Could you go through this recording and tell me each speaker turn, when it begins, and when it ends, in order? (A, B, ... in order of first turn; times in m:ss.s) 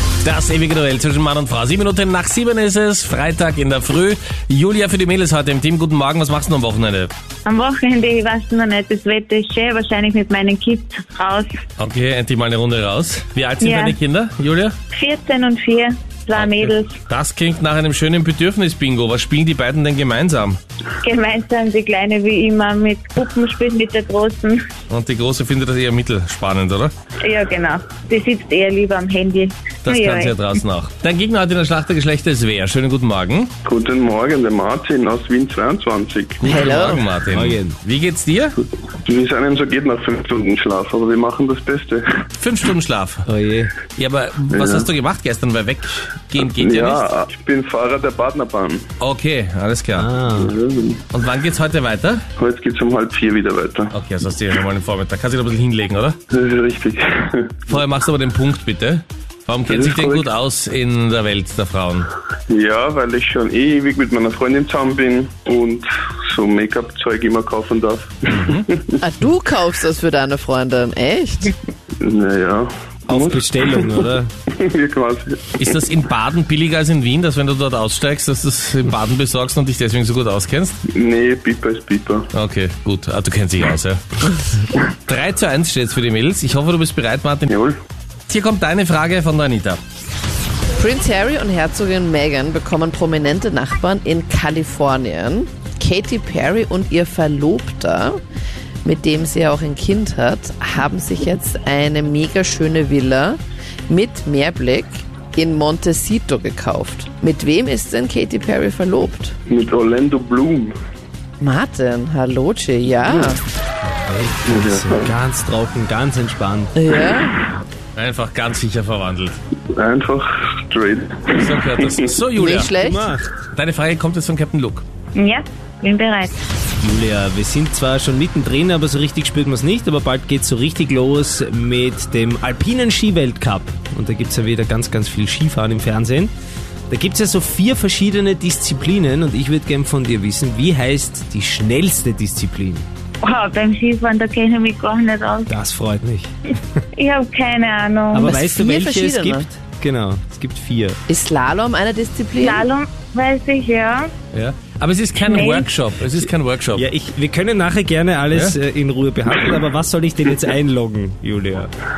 0:00.2-0:07.1 A
0:07.4-0:11.6 B
0:11.8-0:14.8 A
0:13.6-0:14.0 B
0:14.9-0:17.0 B
0:16.3-0:20.6 A
0:21.0-0:24.6 B
0:24.9-0:26.9 A
0:27.2-0:30.4 B
0:29.8-0:33.5 A
0:33.6-0:36.6 C
0:36.4-0:38.6 A
0:36.4-0:37.2 D
0:37.3-0:37.8 E
0:39.0-0:42.2 C
0:42.4-0:43.2 A
0:43.3-0:43.7 E
0:44.0-0:47.1 A
0:44.5-0:44.9 C
0:46.4-0:48.9 C
0:49.0-0:50.1 A
0:49.9-0:50.5 E
0:50.3-0:51.0 C
0:51.1-0:52.2 A
0:52.4-0:53.9 C
0:53.9-0:56.2 A
0:56.3-0:57.7 C
0:57.7-1:02.1 A
0:59.6-1:00.3 C
1:02.5-1:09.0 C
1:08.3-1:08.7 A
1:09.0-1:11.6 D
1:12.0-1:15.8 C
1:13.1-1:14.3 E
1:15.6-1:20.8 A
1:20.9-1:22.3 C
1:22.3-1:24.0 A
1:24.7-1:27.5 A
1:27.5-1:27.8 C
1:28.3-1:29.8 A
1:30.8-1:38.2 D
1:38.8-1:49.4 D
1:49.5-1:50.8 C
1:51.4-1:53.4 D
1:53.8-1:56.8 E
1:54.4-1:55.1 C
1:56.8-1:57.4 D
1:58.0-1:59.4 A
1:59.7-2:02.2 C
2:01.4-2:02.7 A
2:02.4-2:03.2 D
2:02.6-2:03.3 E
2:03.5-2:04.8 A
2:05.2-2:06.4 B
2:06.8-2:16.3 E
2:16.9-2:22.9 E
2:23.2-2:25.5 B
2:25.5-2:26.3 E
2:26.9-2:28.4 B
2:28.1-2:31.0 E
2:28.2-2:29.5 D
2:31.1-2:32.6 D
2:32.4-2:34.1 B
2:34.3-2:36.8 A
2:35.3-2:35.7 B
2:36.7-2:41.7 E